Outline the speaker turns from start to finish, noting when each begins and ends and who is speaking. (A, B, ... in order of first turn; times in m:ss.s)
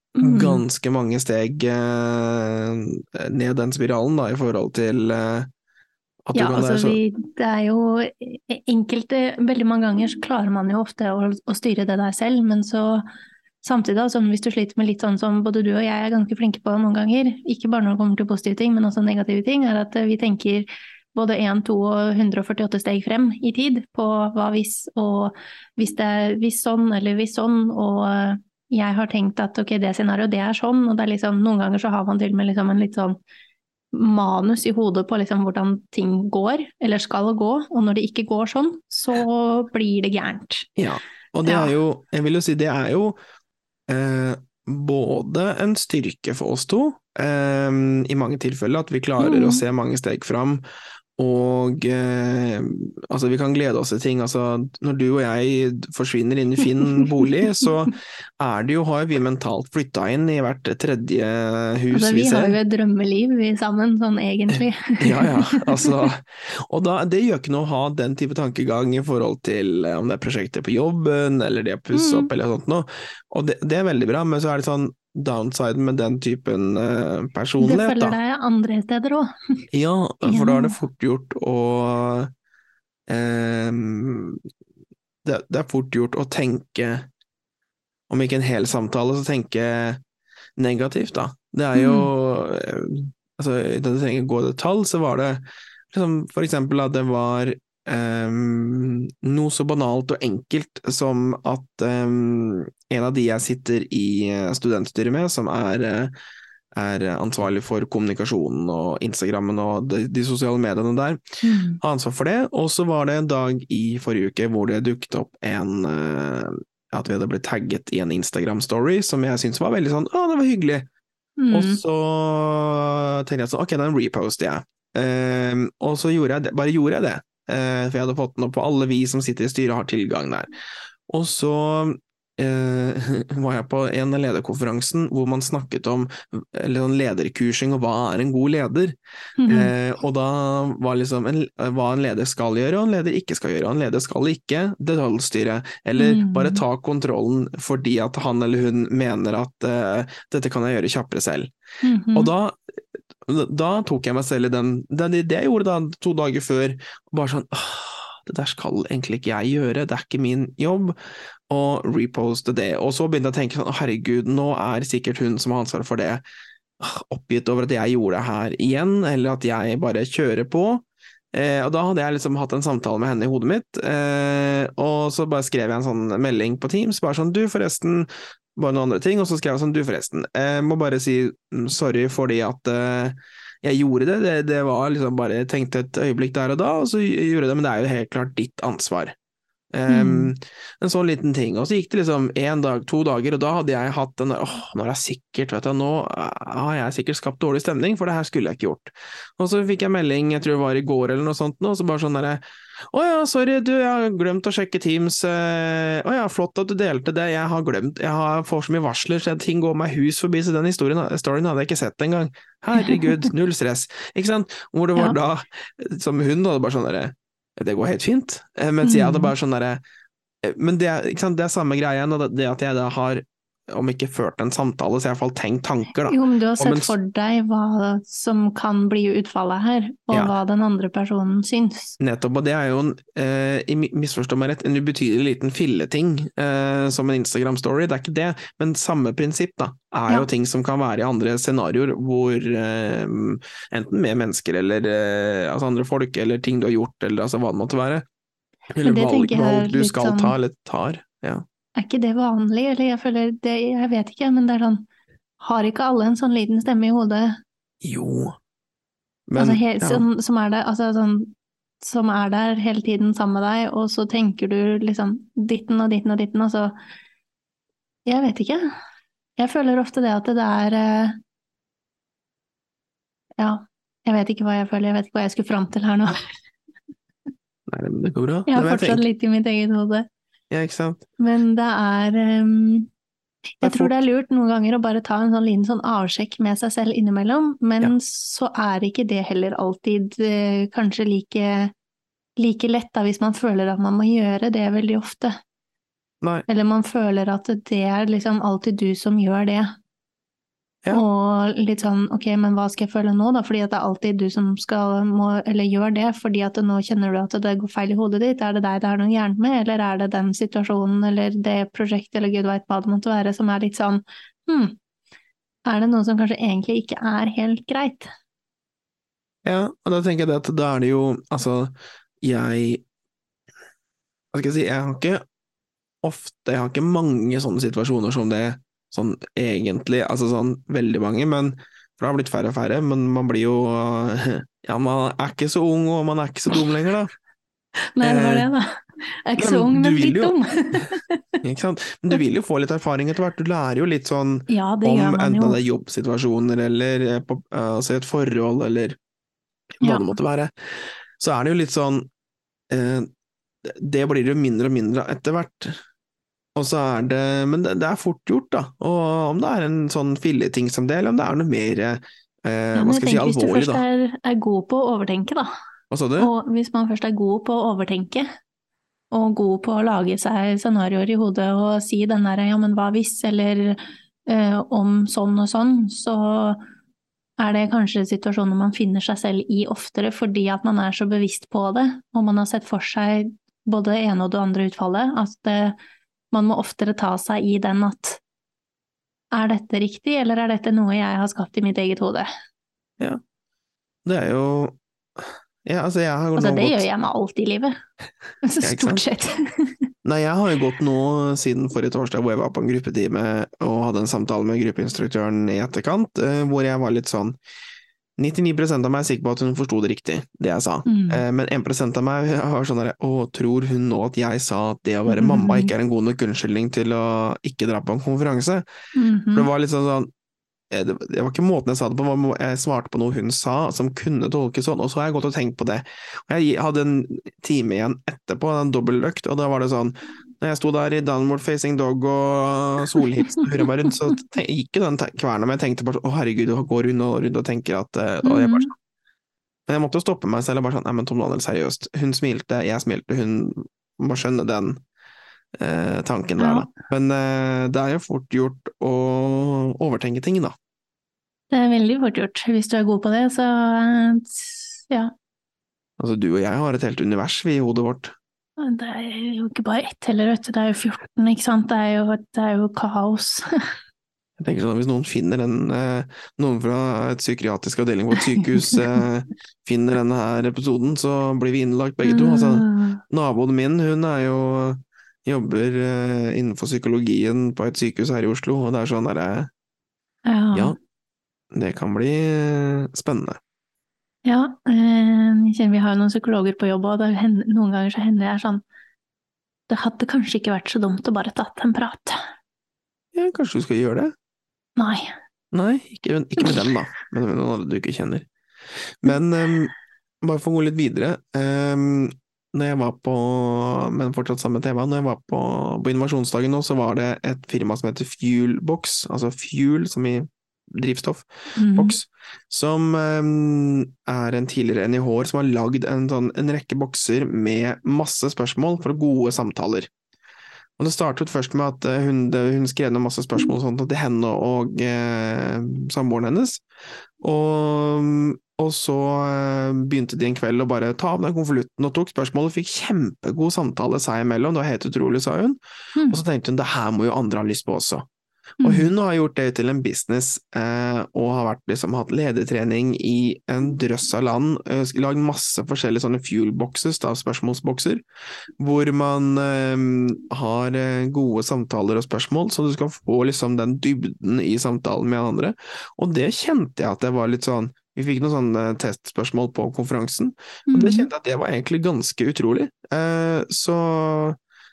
0:00.2-0:05.5 A
0:00.2-0:00.6 B
0:06.3-0:07.0 A
0:06.4-0:13.0 B
0:13.6-0:33.2 B
0:33.9-0:40.7 B
0:40.8-0:43.2 A
0:41.4-0:41.7 B
0:43.9-0:50.6 A
0:49.2-0:49.6 B
0:51.2-1:02.6 A
1:01.9-1:05.9 B
1:04.5-1:18.2 A
1:11.9-1:12.3 B
1:17.6-1:19.6 B
1:19.7-1:22.3 A
1:20.2-1:20.8 B
1:23.1-1:24.4 A
1:25.2-1:27.1 A
1:28.1-1:30.0 A
1:30.6-1:46.1 A
1:31.7-1:32.1 B
1:46.8-1:51.2 A
1:51.4-1:51.8 B
1:51.8-2:00.9 A
2:01.4-2:01.8 B
2:01.5-2:10.5 A
2:11.1-2:19.0 A
2:19.4-2:19.7 B
2:19.5-2:31.5 A
2:26.0-2:26.6 B
2:31.8-2:32.3 B
2:32.2-2:32.6 A
2:33.2-2:41.0 A
2:41.5-2:46.2 A
2:46.8-3:09.2 A
3:09.7-3:39.8 A
3:09.9-3:10.3 B
3:32.8-3:33.3 B
3:38.8-3:39.3 B
3:40.4-3:46.9 A
3:46.0-3:52.0 B
3:52.0-4:08.1 A
4:08.7-4:11.4 A
4:08.8-4:10.4 B
4:11.8-4:14.9 B
4:15.4-4:17.4 B
4:17.8-4:18.4 A
4:19.3-4:20.0 A
4:19.4-4:26.8 B
4:28.0-4:28.7 B
4:29.4-4:31.2 B
4:33.4-4:36.2 B
4:37.7-4:39.0 A
4:38.5-4:40.1 B
4:40.5-4:41.0 A
4:41.2-4:42.9 B
4:43.6-4:51.7 B
4:43.6-4:44.0 A
4:52.4-4:55.4 B
4:56.5-4:59.7 B
5:00.9-5:14.8 B
5:15.7-5:18.1 B
5:19.4-5:22.8 A
5:24.3-5:25.2 A
5:26.0-5:37.1 A
5:38.0-5:41.4 B
5:38.0-5:38.5 A
5:39.4-5:40.4 A
5:41.4-5:49.0 A
5:44.5-5:45.6 B
5:49.8-5:50.5 A
5:49.8-5:50.1 B
5:51.2-5:52.1 A
5:52.7-5:53.1 A
5:53.6-5:55.8 A
5:56.6-6:03.8 A
6:02.8-6:05.5 B
6:05.9-6:06.3 A
6:06.2-6:08.3 B
6:09.1-6:16.6 B
6:17.4-6:25.8 B
6:26.3-6:28.2 B
6:29.3-6:32.3 B
6:34.0-6:34.8 A
6:35.6-6:36.9 A
6:36.4-6:37.8 B
6:38.4-6:39.8 B
6:38.6-6:39.0 A
6:40.0-6:47.4 A
6:48.2-6:58.6 A
6:50.9-6:51.2 B
6:55.1-6:55.7 B
6:59.0-6:59.5 B
6:59.4-7:00.1 A
7:00.7-7:18.7 A
7:18.2-7:18.7 B
7:19.7-7:24.8 A
7:25.6-7:30.6 A
7:26.4-7:26.7 B
7:31.5-7:35.1 B
7:36.0-7:38.1 A
7:38.6-7:43.5 B
7:44.4-7:59.5 A
7:48.3-7:48.8 B
7:52.0-7:53.0 B
8:00.3-8:00.8 B
8:01.5-8:03.4 A
8:04.2-8:08.6 B
8:09.7-8:12.2 B
8:13.1-8:14.1 A
8:14.8-8:15.1 B
8:15.5-8:18.3 A
8:19.0-8:39.9 A
8:31.6-8:32.0 B
8:40.8-8:46.6 A
8:47.2-8:55.6 A
8:56.0-8:56.2 B
8:56.1-8:58.1 A
8:58.6-8:58.9 B
8:58.6-9:08.0 A
9:08.6-9:24.4 A
9:20.7-9:21.1 B